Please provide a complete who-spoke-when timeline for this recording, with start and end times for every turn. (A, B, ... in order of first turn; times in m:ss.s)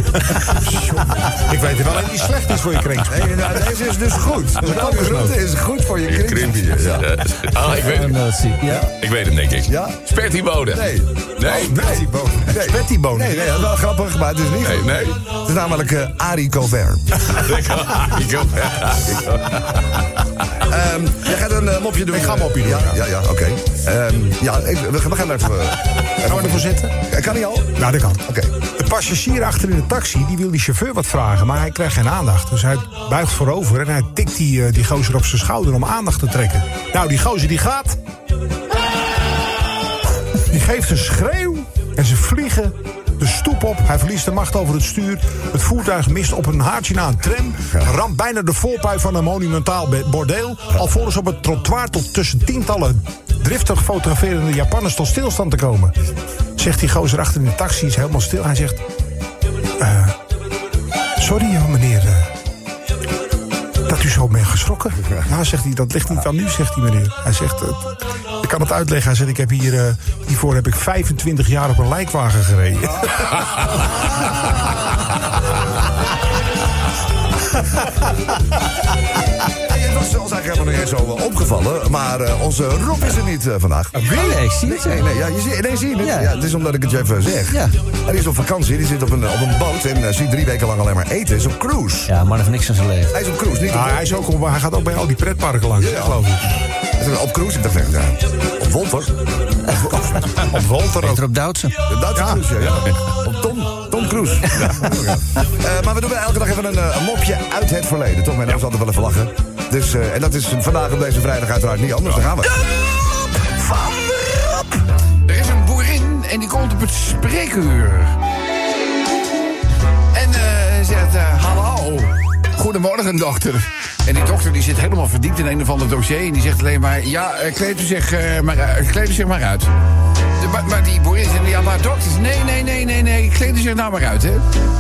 0:00.3-0:03.6 A
0:03.0-0:07.1 B
0:04.6-0:05.4 A
0:06.1-0:08.2 C
0:07.6-0:08.9 D
0:09.0-0:11.8 C
0:09.7-0:10.0 B
0:10.7-0:17.2 B
0:11.6-0:13.7 A
0:14.6-0:15.2 C
0:17.3-0:20.4 C
0:20.6-0:28.5 B
0:22.1-0:23.0 A
0:26.3-0:26.9 A
0:27.8-0:28.2 A
0:28.8-0:38.0 A
0:40.4-0:55.9 A
0:56.6-0:58.8 A
0:59.8-1:00.2 A
1:01.2-1:02.3 A
1:03.9-1:13.4 A
1:19.6-1:24.0 B
1:24.0-1:24.4 A
1:24.1-1:25.1 D
1:24.6-1:32.1 B
1:26.0-1:26.3 D
1:27.5-1:27.8 D
1:32.1-1:33.1 D
1:33.1-1:34.1 B
1:33.7-1:36.6 A
1:35.8-1:36.2 B
1:37.0-1:39.1 B
1:39.7-1:40.1 B
1:39.7-1:41.7 D
1:40.3-1:41.2 A
1:41.9-1:52.5 B
1:42.2-1:42.5 A
1:42.6-1:43.0 C
1:44.6-1:44.9 C
1:55.2-1:58.2 E
2:00.1-2:09.7 E
2:10.4-2:14.4 E